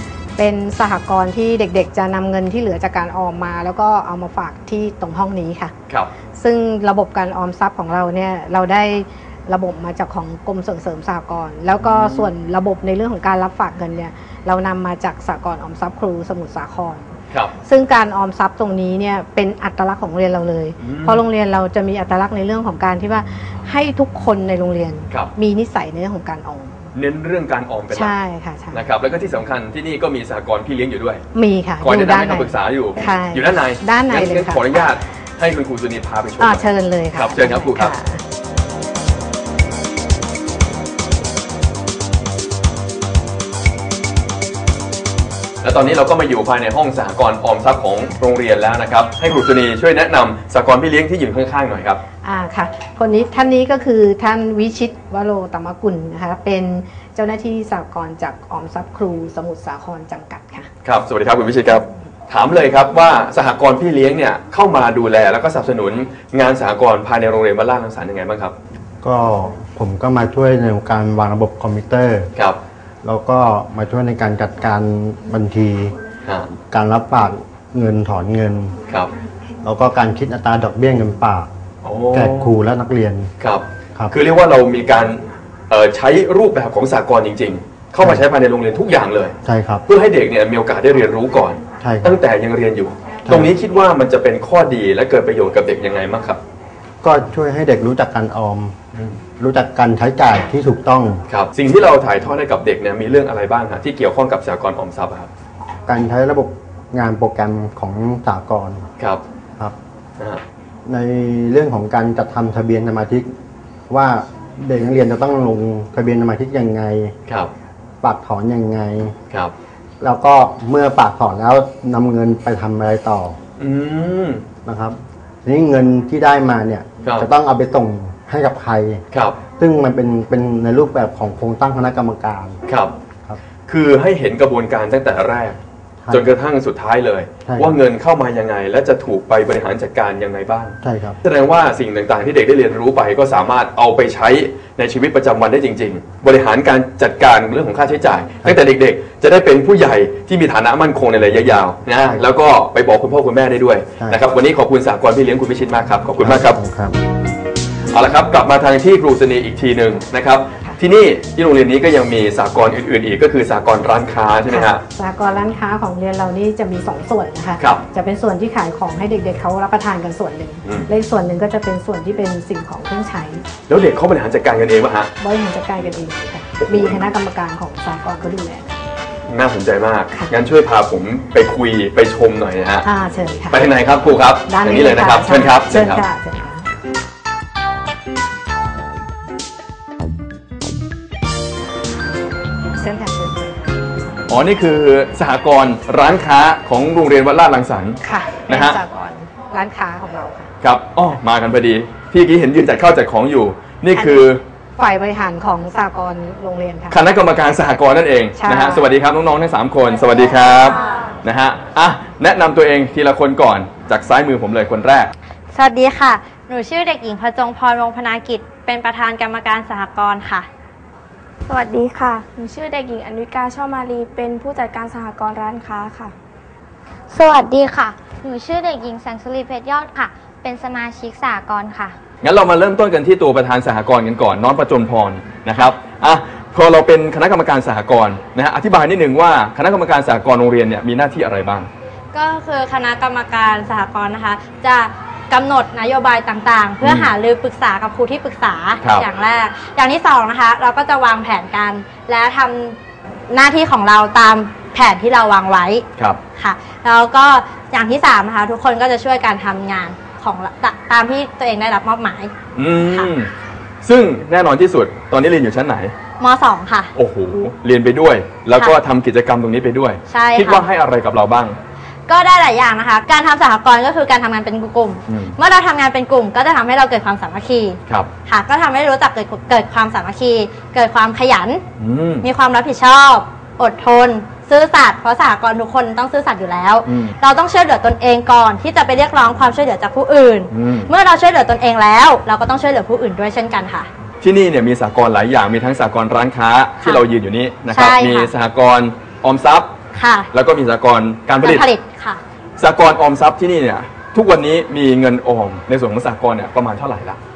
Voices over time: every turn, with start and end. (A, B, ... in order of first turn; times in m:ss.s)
0:00.4-0:05.7 A
0:06.4-0:17.1 A
0:11.8-0:12.3 B
0:17.6-0:26.8 A
0:20.8-0:21.2 B
0:26.9-0:28.1 B
0:27.9-0:28.8 A
0:28.7-0:31.2 B
0:31.3-0:34.6 A
0:31.8-0:37.9 B
0:36.4-0:38.2 A
0:45.6-0:52.0 B
0:52.2-1:00.7 A
1:00.8-1:08.5 B
1:09.0-1:12.3 C
1:13.0-1:15.9 C
1:16.7-1:18.8 C
1:19.6-1:21.5 C
1:21.8-1:22.5 B
1:22.1-1:23.3 C
1:23.4-1:29.3 B
1:29.4-1:29.8 C
1:29.9-1:36.4 B
1:31.8-1:32.2 C
1:33.2-1:33.5 C
1:37.0-1:38.8 C
1:39.4-1:41.2 C
1:41.3-1:45.3 B
1:45.9-1:48.9 C
1:50.9-1:53.3 C
1:53.9-1:57.1 C
1:58.0-1:59.1 C
2:00.0-2:03.4 C
2:03.6-2:04.4 B
2:04.6-2:09.0 C
2:09.1-2:09.4 B
2:09.6-2:12.6 C
2:12.7-2:12.9 B
2:13.7-2:36.6 B
2:16.0-2:16.3 C
2:17.4-2:17.8 C
2:20.8-2:21.2 C
2:36.2-2:37.0 C
2:37.9-2:44.8 B
2:44.5-2:53.4 A
2:47.6-2:47.8 B
2:53.7-2:55.1 B
2:55.2-2:58.8 A
2:56.6-2:57.0 B
2:59.3-3:02.8 B
3:02.8-3:03.6 A
3:03.5-3:06.0 B
3:04.5-3:06.6 A
3:12.8-3:13.6 A
3:14.3-3:18.8 B
3:18.0-3:20.5 A
3:20.6-3:24.4 B
3:23.9-3:24.2 A
3:24.8-3:27.0 A
3:26.9-3:35.1 B
3:28.4-3:28.8 A
3:35.5-3:40.5 D
3:41.5-3:46.1 E
3:47.1-3:52.0 F
3:52.2-4:01.7 B
4:02.1-4:12.8 D
4:06.8-4:07.1 B
4:08.8-4:09.1 B
4:13.3-4:15.8 D
4:16.4-4:22.3 D
4:22.5-4:23.3 B
4:23.8-4:25.9 B
4:26.2-4:26.9 D
4:26.9-4:31.6 B
4:30.1-4:30.6 D
4:32.1-4:41.6 D
4:35.1-4:35.3 B
4:41.8-4:42.2 B
4:42.2-4:53.9 D
4:46.8-4:47.2 B
4:50.5-4:50.9 B
4:54.2-4:59.7 B
4:57.7-4:58.3 D
5:00.0-5:00.3 D
5:00.3-5:01.7 B
5:01.4-5:02.2 D
5:02.6-5:07.2 B